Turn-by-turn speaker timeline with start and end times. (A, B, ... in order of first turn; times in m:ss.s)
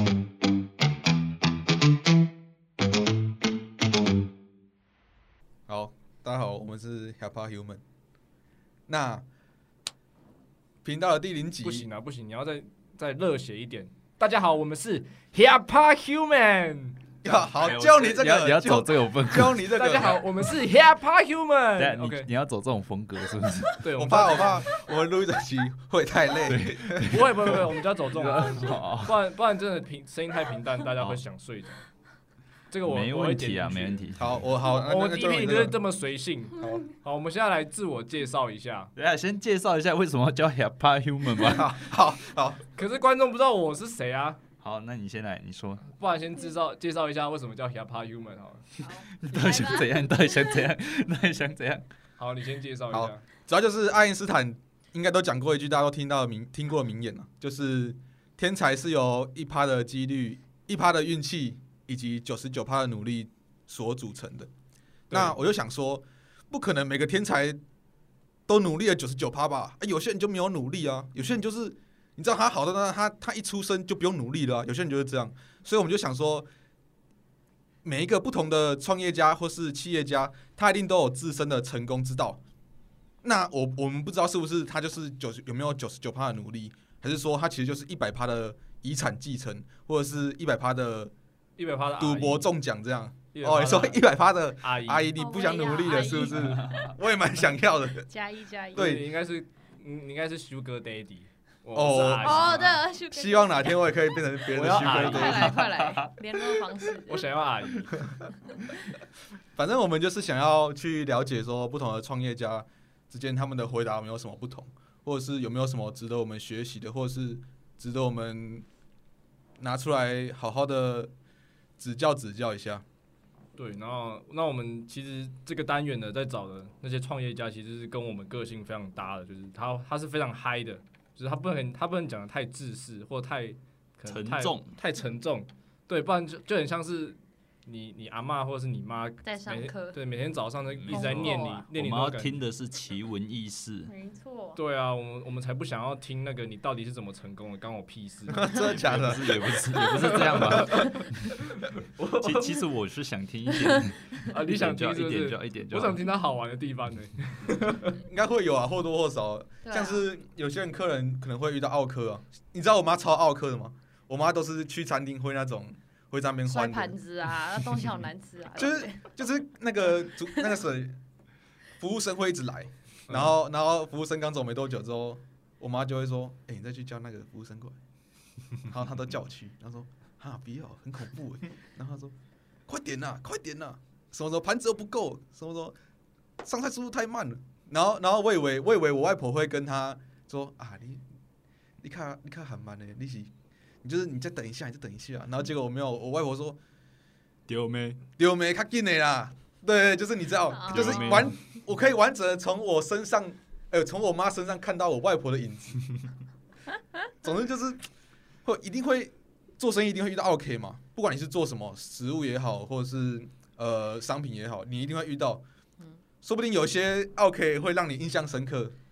0:05.7-0:07.8 A
0:08.9-0:09.2 A
0:10.8-0:11.9 A
0:11.6-0:17.2 B
0:17.2-0:20.2 A
0:17.3-0:19.7 C
0:19.7-0:22.3 B
0:21.8-0:23.8 C
0:23.8-0:24.6 B
0:24.0-0:27.7 A
0:26.4-0:29.2 C
0:27.0-0:31.8 B
0:32.7-0:34.0 B
0:32.8-0:34.4 C
0:34.2-0:35.8 A
0:34.6-0:38.9 B
0:36.6-0:36.8 A
0:39.0-0:41.8 C
0:41.4-0:42.6 A
0:42.7-0:44.4 B
0:44.6-0:45.8 C
0:45.9-0:48.6 B
0:48.8-0:50.4 D
0:49.1-0:51.8 C
0:52.2-0:53.2 B
0:52.9-1:04.5 A
1:05.1-1:05.4 B
1:05.1-1:07.6 A
1:08.5-1:16.5 A
1:17.8-1:22.4 A
1:23.2-1:31.1 A
1:31.6-1:32.5 B
1:32.0-1:38.1 A
1:33.3-1:34.0 B
1:34.6-1:35.1 B
1:35.2-1:36.7 D
1:36.4-1:36.9 C
1:38.1-1:38.8 D
1:38.7-1:42.8 B
1:38.7-1:39.1 A
1:41.7-1:45.6 A
1:42.2-1:43.9 D
1:44.5-1:45.5 B
1:44.7-1:47.3 D
1:45.3-1:46.5 C
1:47.1-1:48.1 B
1:48.5-1:48.7 D
1:49.5-1:58.6 A
1:59.6-2:01.1 A
2:01.8-2:02.8 A
2:03.5-2:22.4 B
2:14.1-2:14.7 C
2:19.2-2:20.0 D
2:20.7-2:23.9 C
2:20.9-2:21.6 D
2:23.9-2:24.6 D
2:24.6-2:28.5 B
2:28.3-2:29.5 A
2:28.5-2:31.4 C
2:30.3-2:31.0 B
2:31.8-2:32.6 B
2:32.2-2:36.0 C
2:34.3-2:38.0 B
2:37.9-2:47.0 A
2:39.6-2:40.0 D
2:46.5-2:49.2 D
2:48.5-2:51.0 A
2:50.2-2:50.5 D
2:51.8-2:57.8 A
2:53.1-2:53.3 B
2:58.6-3:02.1 A
3:02.7-3:05.8 A
3:06.4-3:11.0 A
3:11.8-3:13.3 A
3:13.8-3:16.6 A
3:17.5-3:18.0 C
3:18.2-3:26.0 A
3:20.5-3:21.3 D
3:20.7-3:21.3 C
3:27.2-3:27.8 A
3:28.4-3:35.4 A
3:36.2-3:38.7 A